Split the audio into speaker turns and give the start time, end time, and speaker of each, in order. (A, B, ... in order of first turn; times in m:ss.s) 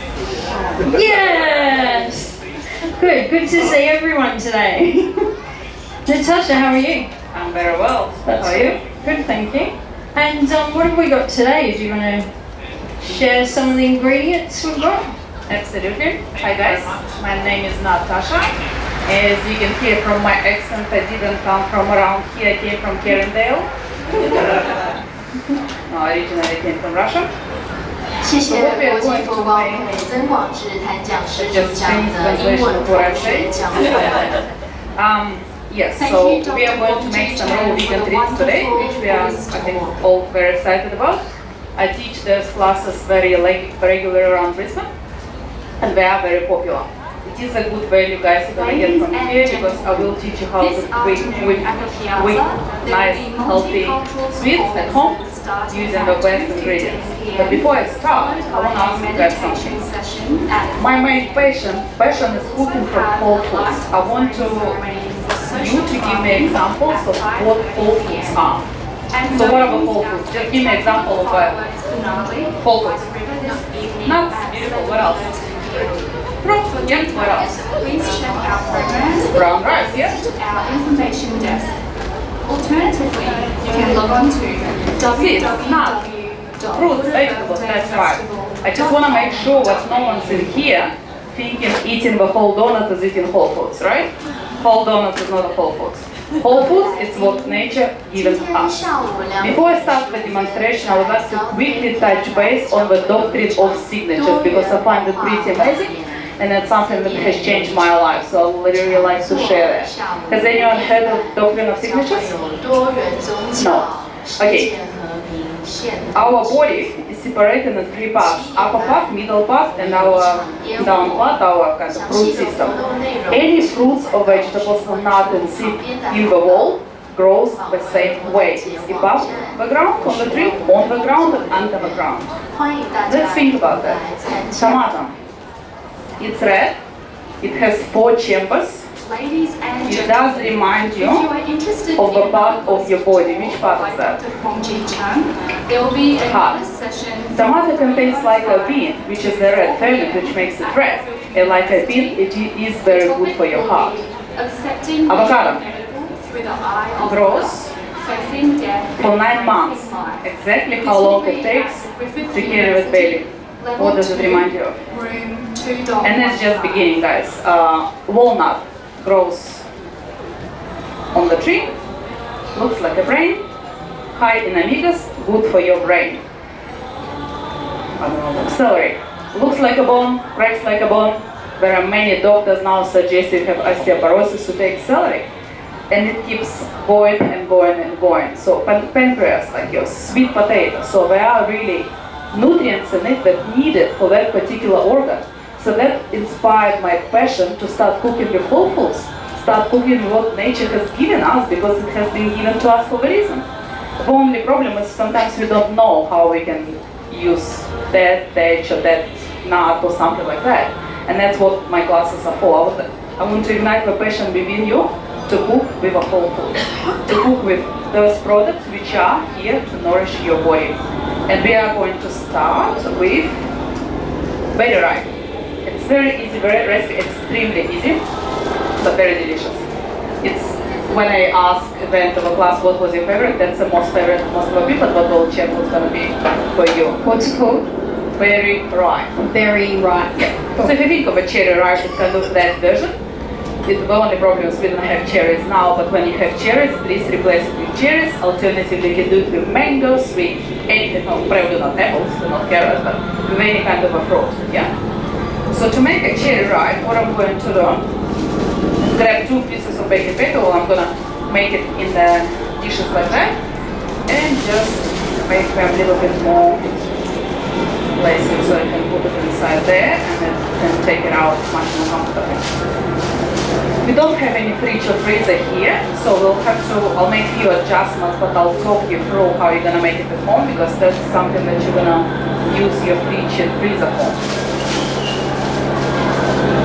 0:00.5-0:01.0 A
0:00.8-0:02.4 B
0:03.0-0:05.2 B
0:06.0-0:07.1 B
0:07.3-0:08.8 A
0:08.2-0:12.3 B
0:13.0-0:15.1 B
0:15.5-0:23.7 A
0:25.9-0:27.3 A
0:28.2-0:34.4 C
0:28.4-0:29.8 A
0:31.3-0:34.2 A
0:35.0-0:41.2 A
0:36.0-0:40.0 D
0:41.8-0:44.9 A
0:45.8-0:59.9 A
0:48.5-1:08.5 D
1:00.8-1:04.8 A
1:05.5-1:08.6 A
1:09.1-1:16.1 D
1:09.2-1:11.6 A
1:12.6-1:13.0 A
1:14.0-1:15.3 A
1:16.4-1:17.6 A
1:16.7-1:21.8 D
1:19.3-1:20.2 A
1:22.4-1:30.5 D
1:25.1-1:26.0 A
1:26.7-1:38.8 A
1:36.4-1:48.2 C
1:39.4-1:52.3 A
1:48.7-1:56.6 C
1:53.5-1:53.8 A
1:54.4-1:54.7 A
1:56.1-2:02.8 A
1:58.1-1:59.2 C
1:59.7-2:06.7 C
2:03.3-2:12.4 A
2:07.6-2:15.0 C
2:13.0-2:15.1 A
2:16.2-2:16.8 A
2:17.4-2:18.8 A
2:19.0-2:32.2 D
2:19.9-2:21.2 A
2:22.0-2:24.2 A
2:26.2-2:26.6 A
2:27.4-2:34.0 A
2:32.8-2:40.2 D
2:35.1-2:35.6 A
2:37.0-2:37.7 A
2:39.0-2:43.2 A
2:40.8-2:46.9 D
2:43.8-2:44.8 A
2:46.0-2:49.6 A
2:51.1-2:51.7 A
2:52.5-2:53.4 A
2:54.1-2:56.2 A
2:58.0-3:05.3 A
3:05.9-3:23.4 A
3:24.0-3:40.8 A
3:41.3-3:43.4 A
3:44.5-3:45.1 A
3:45.6-3:48.0 A
3:48.8-3:49.6 A
3:50.2-3:57.0 A
3:57.0-3:57.7 B
3:58.2-3:59.1 A
3:59.2-4:00.7 B
4:00.1-4:03.0 A
4:03.6-4:14.7 A
4:15.5-4:17.8 A
4:18.8-4:23.3 A
4:24.1-4:26.9 A
4:27.9-4:32.4 A
4:33.8-4:44.2 A